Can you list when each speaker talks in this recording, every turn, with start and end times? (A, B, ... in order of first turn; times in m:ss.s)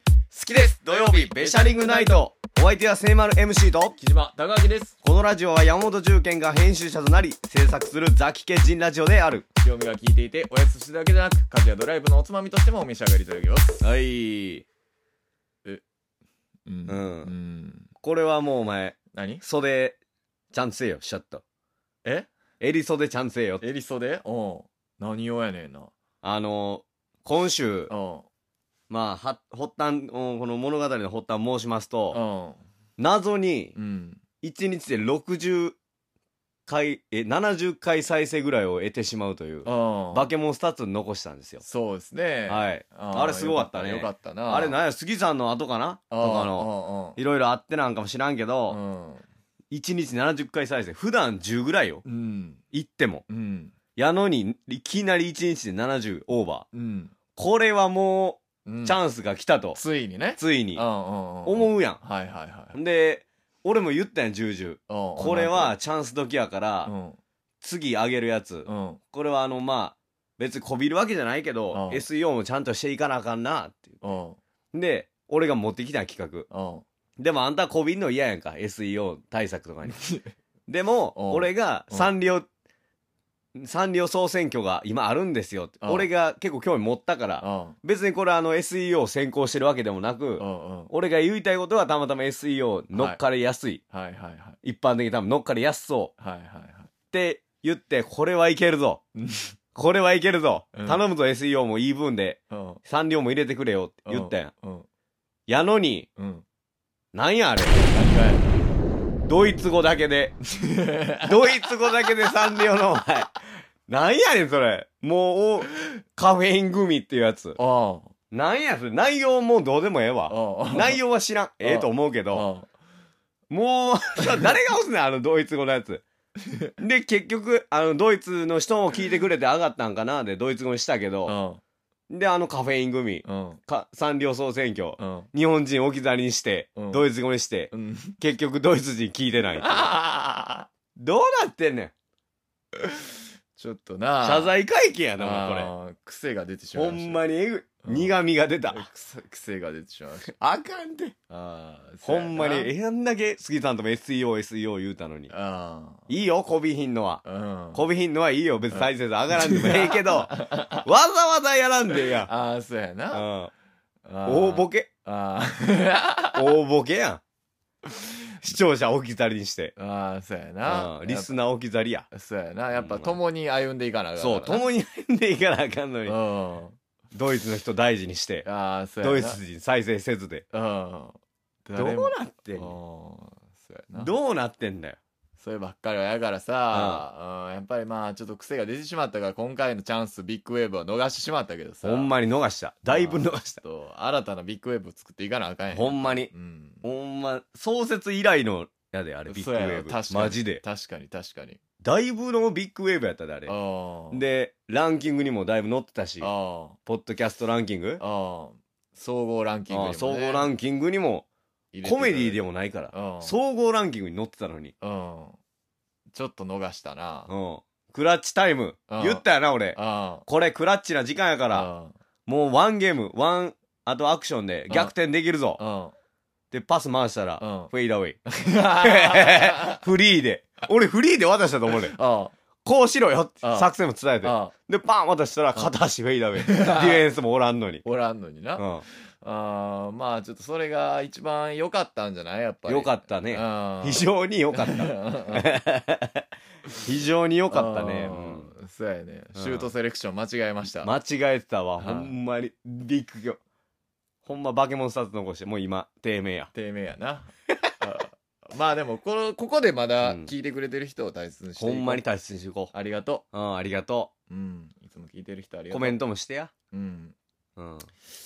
0:00.3-0:02.2 A
0:00.8-0:04.0 B
0:04.0-0:05.0 A
0:05.0-0:09.5 B
0:09.6-0:13.8 A
0:13.8-0:14.7 B
0:16.7-0:17.9 A
0:16.9-0:17.3 B
0:18.0-0:20.0 B
0:19.1-0:19.4 A
0:20.5-0:21.4 B
0:22.0-0:22.3 A
0:22.6-0:23.6 B
0:23.6-0:25.9 A
0:26.2-0:27.9 B
0:27.9-0:28.3 A
0:28.9-0:32.2 B
0:32.1-0:32.6 A
0:33.0-0:33.8 B
0:33.8-0:34.2 A
0:34.4-0:35.8 B
0:36.7-0:41.6 B
0:39.6-0:40.3 A
0:41.6-0:44.8 A
0:42.5-0:48.8 B
0:46.1-0:47.2 A
0:48.7-0:49.3 A
0:49.7-0:52.0 B
0:52.0-0:52.6 A
0:52.7-0:53.2 B
0:53.3-0:53.8 A
0:54.0-0:56.7 B
0:56.7-0:57.1 A
0:57.4-0:59.8 B
0:58.6-0:59.0 A
0:59.7-1:02.8 A
1:00.4-1:00.8 B
1:01.4-1:02.0 B
1:02.7-1:06.9 B
1:04.9-1:05.8 A
1:06.8-1:07.2 A
1:07.6-1:14.0 B
1:08.7-1:09.0 A
1:11.7-1:12.1 A
1:14.0-1:14.4 A
1:14.7-1:16.5 B
1:16.5-1:16.8 A
1:17.2-1:20.0 B
1:19.8-1:20.2 A
1:20.7-1:22.5 B
1:21.2-1:22.1 A
1:23.6-1:33.8 B
1:25.8-1:26.1 A
1:27.4-1:27.8 A
1:30.4-1:30.9 A
1:32.9-1:33.2 A
1:33.9-1:34.6 A
1:34.6-1:36.1 B
1:36.2-1:36.9 A
1:37.1-1:39.0 B
1:39.2-1:39.5 A
1:39.7-1:44.5 B
1:40.7-1:41.0 A
1:42.5-1:42.8 A
1:44.1-1:44.9 A
1:45.5-1:46.1 B
1:46.2-1:46.4 A
1:47.1-1:47.8 B
1:47.9-1:48.5 A
1:49.3-1:50.4 B
1:50.5-1:52.3 A
1:51.2-1:57.6 B
1:57.6-1:58.1 A
1:58.3-2:02.5 B
2:00.3-2:01.0 A
2:01.6-2:02.7 A
2:03.5-2:06.0 B
2:06.8-2:11.4 B
2:11.3-2:11.6 A
2:12.1-2:19.9 B
2:13.2-2:13.6 A
2:15.0-2:15.3 A
2:16.8-2:17.1 A
2:17.7-2:18.2 A
2:19.6-2:20.7 A
2:21.0-2:21.9 B
2:22.8-2:23.0 A
2:23.6-2:24.5 A
2:24.2-2:25.7 B
2:25.2-2:27.2 A
2:26.7-2:28.9 B
2:27.8-2:28.2 A
2:28.7-2:30.3 A
2:30.3-2:31.2 B
2:31.3-2:32.7 A
2:32.0-2:35.3 B
2:35.3-2:36.1 A
2:36.1-2:37.2 B
2:37.2-2:37.9 A
2:37.7-2:42.3 B
2:38.7-2:40.9 A
2:41.9-2:43.3 A
2:43.1-2:43.5 B
2:44.1-2:46.6 A
2:44.3-2:44.9 B
2:46.4-2:47.2 B
2:47.9-2:48.4 A
2:48.4-2:49.7 B
2:49.8-2:51.4 A
2:50.7-2:52.1 B
2:52.1-2:54.7 A
2:52.7-2:53.2 B
2:54.2-2:56.2 B
2:56.1-2:56.8 A
2:57.1-2:58.5 B
2:58.4-2:59.4 A
2:59.0-3:00.4 B
3:00.5-3:04.1 A
3:01.8-3:02.8 B
3:03.9-3:05.0 B
3:05.4-3:12.1 A
3:06.7-3:07.0 B
3:11.8-3:13.6 B
3:12.9-3:16.8 A
3:15.7-3:16.3 B
3:16.8-3:20.6 B
3:19.3-3:21.6 A
3:21.8-3:23.5 B
3:23.5-3:24.2 A
3:24.1-3:26.3 B
3:26.2-3:26.8 A
3:26.8-3:28.0 B
3:28.0-3:30.5 A
3:29.7-3:31.3 B
3:31.7-3:33.4 A
3:31.8-3:34.7 B
3:34.8-3:35.4 A
3:36.1-3:37.3 A
3:37.3-3:41.7 B
3:38.9-3:40.3 A
3:41.5-3:41.9 A
3:42.3-3:45.6 B
3:45.6-3:46.0 A
3:46.5-3:48.2 B
3:47.4-3:47.7 A
3:48.4-3:49.8 A
3:48.8-3:52.0 B
3:51.7-3:52.3 A
3:52.6-3:57.8 B
3:53.4-3:54.5 A
3:56.4-3:57.1 A
3:57.8-3:58.7 A
3:58.6-3:58.8 B
3:59.2-4:05.5 A
4:02.7-4:06.3 B
4:06.8-4:08.5 B
4:07.5-4:10.9 A
4:09.4-4:09.7 B
4:10.8-4:13.4 B
4:11.8-4:12.2 A
4:14.2-4:16.5 B
4:16.5-4:22.0 A
4:20.0-4:20.3 B
4:21.6-4:22.7 B
4:22.7-4:23.2 A
4:23.3-4:24.1 B
4:24.3-4:26.0 A
4:25.7-4:26.5 B
4:26.7-4:27.2 A
4:27.6-4:27.9 B